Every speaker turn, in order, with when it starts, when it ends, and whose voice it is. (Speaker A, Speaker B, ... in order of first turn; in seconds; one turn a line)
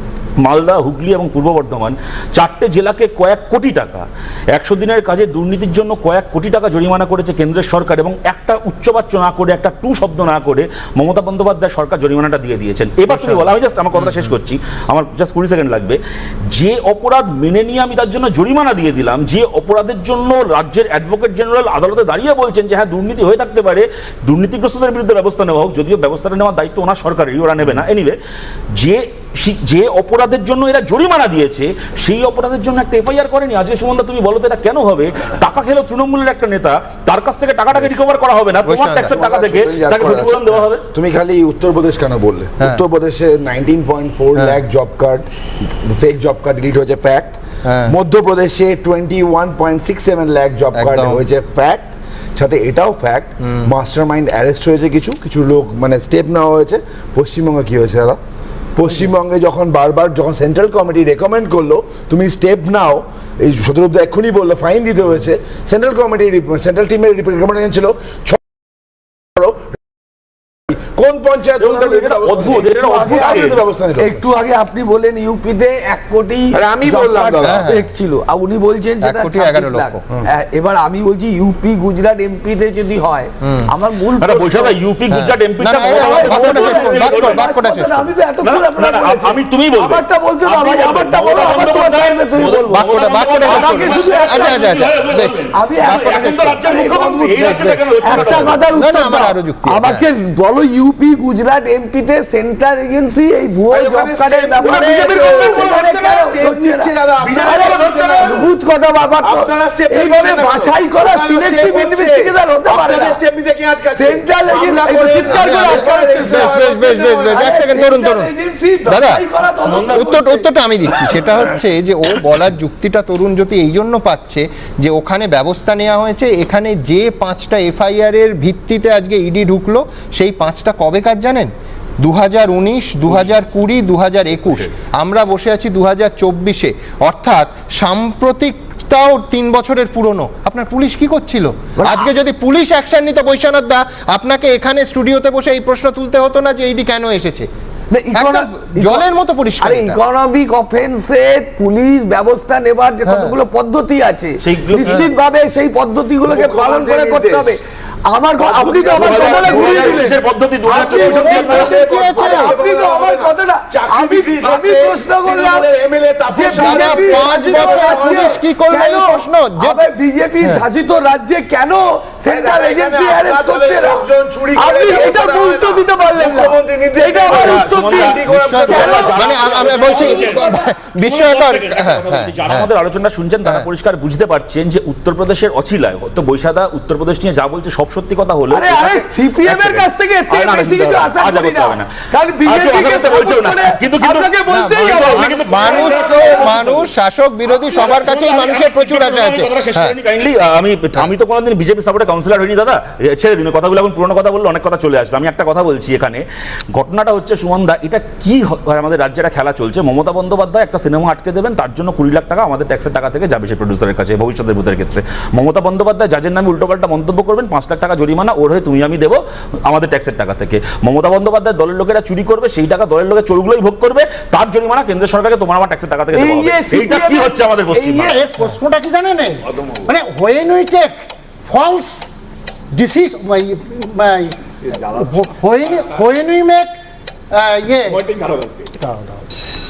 Speaker A: 0.4-16.0
Speaker B: 13.1-13.5
Speaker B: 14.0-14.3
Speaker A: 16.5-28.2
Speaker A: 28.8-40.9
Speaker B: 38.6-39.2
Speaker C: 39.0-58.2
Speaker B: 47.6-48.0
Speaker B: 50.8-51.2
Speaker C: 58.8-68.4
Speaker C: 69.3-69.7
Speaker C: 70.7-74.2
Speaker A: 71.6-73.6
Speaker D: 72.8-84.8
Speaker C: 76.5-77.7
Speaker B: 77.4-77.9
Speaker B: 79.0-80.0
Speaker B: 83.4-83.7
Speaker A: 84.2-87.5
Speaker B: 85.1-88.1
Speaker D: 85.8-94.7
Speaker A: 88.4-98.6
Speaker B: 92.7-96.6
Speaker D: 95.5-113.2
Speaker B: 97.4-100.0
Speaker C: 103.7-108.5
Speaker A: 107.2-108.4
Speaker C: 109.2-117.4
Speaker D: 113.9-121.3
Speaker B: 115.3-118.3
Speaker B: 118.9-119.2
Speaker B: 119.8-147.5
Speaker D: 141.8-142.1
Speaker D: 147.9-149.1
Speaker B: 148.1-150.0
Speaker D: 149.6-160.2
Speaker B: 153.1-153.3
Speaker A: 154.4-155.1
Speaker C: 156.2-157.6
Speaker C: 158.4-168.3
Speaker A: 158.9-161.8
Speaker D: 160.7-165.7
Speaker B: 160.9-162.5
Speaker D: 166.3-180.7
Speaker B: 166.5-169.8
Speaker C: 172.3-179.5
Speaker A: 177.3-191.9
Speaker B: 178.3-182.7
Speaker D: 188.5-196.5
Speaker A: 192.5-196.9
Speaker B: 194.5-200.0
Speaker A: 197.5-228.2
Speaker D: 226.1-228.1
Speaker E: 228.0-232.1
Speaker E: 232.7-236.7
Speaker C: 234.7-235.1
Speaker E: 237.3-238.1
Speaker C: 237.9-238.7
Speaker E: 238.8-239.2